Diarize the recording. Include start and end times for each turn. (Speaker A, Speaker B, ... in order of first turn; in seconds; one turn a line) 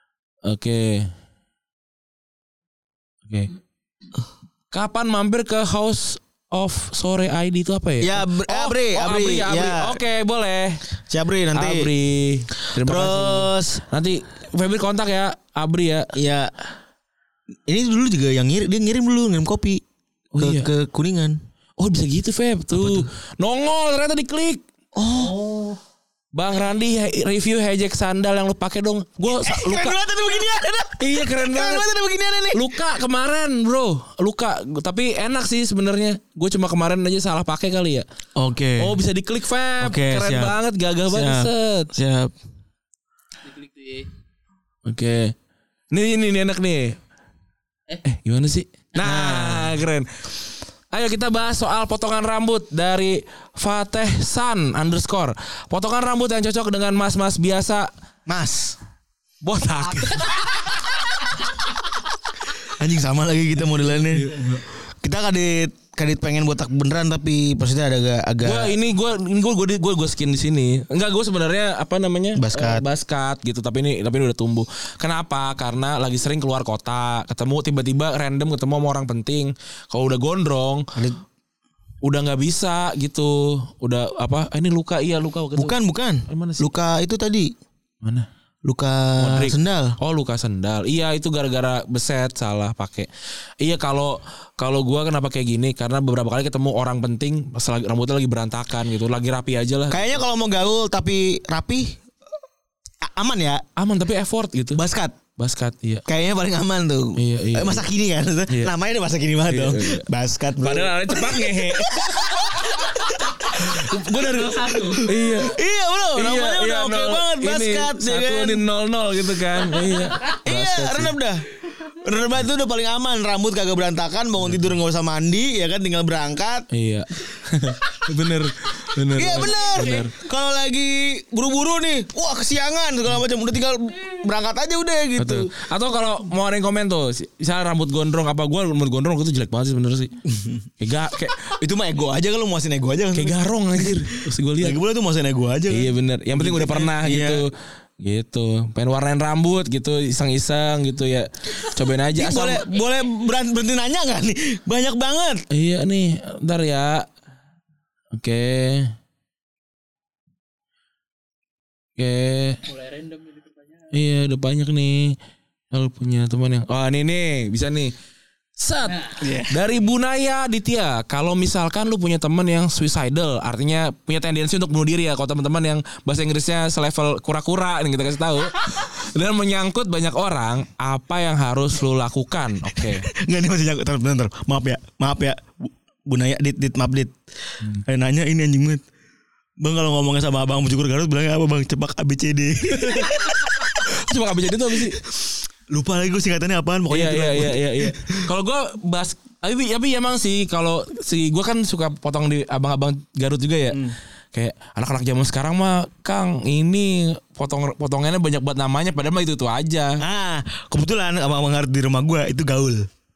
Speaker A: 0.5-1.1
Speaker A: 4.7-10.8
Speaker B: 8.0-10.0
Speaker B: 11.1-11.9
Speaker A: 11.5-16.1
Speaker B: 12.8-13.8
Speaker B: 16.1-16.6
Speaker B: 17.7-19.8
Speaker A: 20.3-20.7
Speaker B: 20.4-21.4
Speaker A: 21.8-24.6
Speaker B: 22.7-23.1
Speaker B: 24.9-25.4
Speaker C: 25.3-25.7
Speaker A: 26.4-30.0
Speaker B: 29.3-32.6
Speaker A: 31.0-31.9
Speaker A: 32.5-38.1
Speaker B: 38.4-39.0
Speaker A: 38.8-41.9
Speaker B: 39.8-40.5
Speaker B: 41.1-42.3
Speaker C: 43.5-44.1
Speaker A: 44.9-45.4
Speaker A: 45.9-47.0
Speaker A: 48.0-50.1
Speaker B: 49.0-49.8
Speaker A: 50.9-57.9
Speaker B: 58.3-58.8
Speaker A: 59.4-60.4
Speaker B: 62.6-68.8
Speaker A: 64.1-64.6
Speaker A: 68.4-80.9
Speaker B: 72.4-72.8
Speaker A: 82.0-85.7
Speaker B: 85.6-87.5
Speaker A: 86.3-86.7
Speaker A: 88.0-88.3
Speaker B: 88.6-90.0
Speaker A: 89.2-93.1
Speaker A: 93.6-100.2
Speaker B: 99.9-102.0
Speaker B: 103.0-103.6
Speaker A: 103.8-104.8
Speaker B: 104.7-105.2
Speaker A: 105.4-106.0
Speaker B: 106.1-118.6
Speaker A: 107.2-107.9
Speaker A: 109.5-110.1
Speaker A: 110.6-112.6
Speaker A: 113.5-115.6
Speaker C: 114.2-115.1
Speaker A: 116.1-121.2
Speaker B: 120.4-126.7
Speaker A: 126.7-130.1
Speaker B: 129.1-135.5
Speaker A: 135.2-140.1
Speaker B: 140.2-140.7
Speaker A: 140.8-141.4
Speaker B: 141.4-147.4
Speaker A: 143.1-144.8
Speaker A: 145.7-152.6
Speaker B: 152.1-155.4
Speaker A: 155.5-157.1
Speaker A: 158.1-158.9
Speaker A: 162.0-162.6
Speaker C: 162.7-163.9
Speaker A: 163.9-165.2
Speaker A: 165.7-167.9
Speaker A: 168.6-183.1
Speaker B: 169.2-169.6
Speaker B: 182.8-187.2
Speaker B: 187.8-188.8
Speaker B: 189.6-193.8
Speaker A: 192.7-195.0
Speaker B: 195.0-198.3
Speaker A: 196.9-210.0
Speaker B: 210.0-212.9